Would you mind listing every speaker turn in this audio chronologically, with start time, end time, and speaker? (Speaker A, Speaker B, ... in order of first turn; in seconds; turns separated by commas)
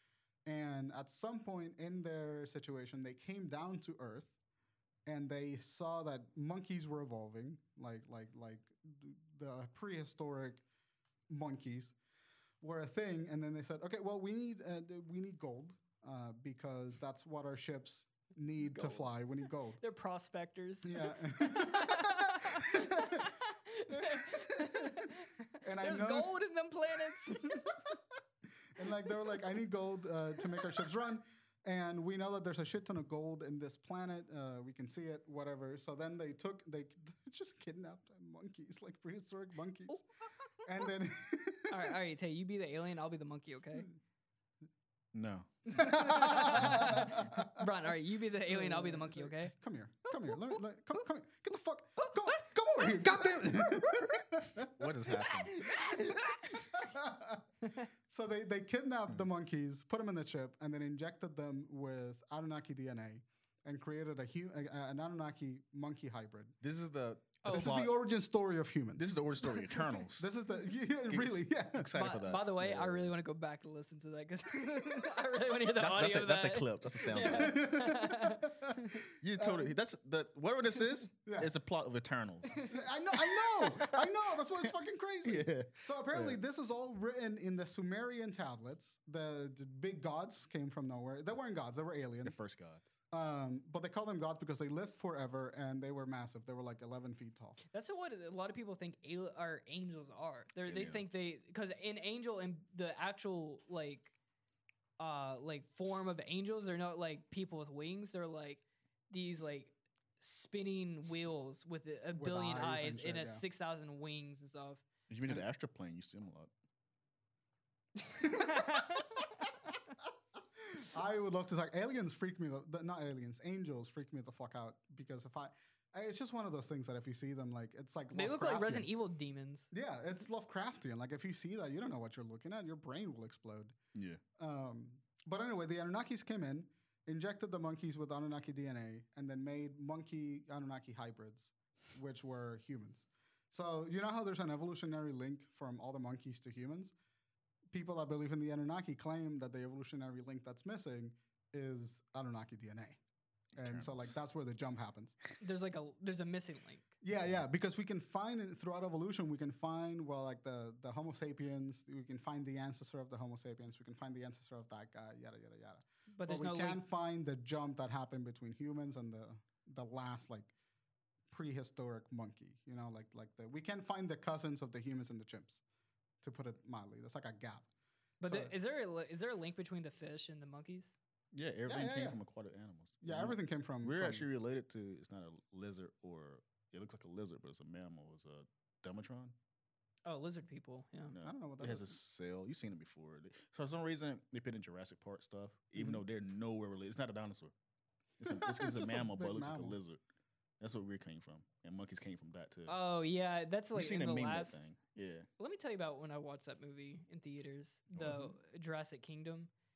Speaker A: 0.5-4.3, Speaker A: 5.0-10.6, Speaker A: 11.3-11.9, Speaker A: 12.6-19.8, Speaker B: 18.6-19.1, Speaker B: 19.8-27.8, Speaker A: 20.8-23.3, Speaker A: 23.9-26.3, Speaker A: 27.1-28.0, Speaker A: 28.7-40.0, Speaker A: 40.6-41.9, Speaker B: 41.7-43.9, Speaker C: 45.1-47.0, Speaker A: 45.7-47.6, Speaker B: 45.8-49.5, Speaker A: 48.5-54.9, Speaker B: 50.2-50.5, Speaker B: 52.0-54.1, Speaker C: 54.7-55.7, Speaker B: 55.1-56.7, Speaker A: 56.7-57.4, Speaker A: 58.1-66.5, Speaker C: 66.6-68.0, Speaker B: 67.4-67.8, Speaker A: 67.5-69.5, Speaker C: 69.0-70.3, Speaker A: 70.2-71.9, Speaker C: 71.1-73.1, Speaker B: 71.9-79.0, Speaker C: 75.7-77.7, Speaker A: 77.1-79.7, Speaker C: 79.2-82.7, Speaker A: 81.2-81.5, Speaker A: 82.7-92.3, Speaker C: 83.3-84.1, Speaker C: 85.2-86.4, Speaker C: 92.2-92.8, Speaker A: 93.1-97.6, Speaker B: 97.7-104.1, Speaker C: 100.7-101.0, Speaker B: 105.0-114.8, Speaker A: 112.1-113.4, Speaker C: 115.1-116.5, Speaker B: 118.0-119.5, Speaker A: 118.2-119.0, Speaker A: 120.6-128.9, Speaker B: 128.1-129.7, Speaker A: 129.7-133.8, Speaker C: 133.9-134.2, Speaker A: 134.4-146.9, Speaker A: 147.7-153.0, Speaker A: 153.6-155.2, Speaker C: 153.6-154.1, Speaker B: 155.4-156.9, Speaker A: 157.0-170.5, Speaker B: 166.1-166.8, Speaker A: 171.3-175.6, Speaker A: 176.2-177.7, Speaker B: 178.2-181.0, Speaker A: 178.2-178.5, Speaker C: 181.3-189.3, Speaker A: 181.7-182.2, Speaker A: 183.0-184.3, Speaker B: 190.0-191.1, Speaker C: 191.1-197.5, Speaker A: 191.2-192.0, Speaker A: 195.8-196.0, Speaker C: 198.2-200.0, Speaker A: 198.2-199.8, Speaker C: 200.6-202.8, Speaker B: 202.7-204.7, Speaker C: 203.7-205.3, Speaker B: 205.4-209.5, Speaker C: 207.9-208.2, Speaker A: 208.0-208.3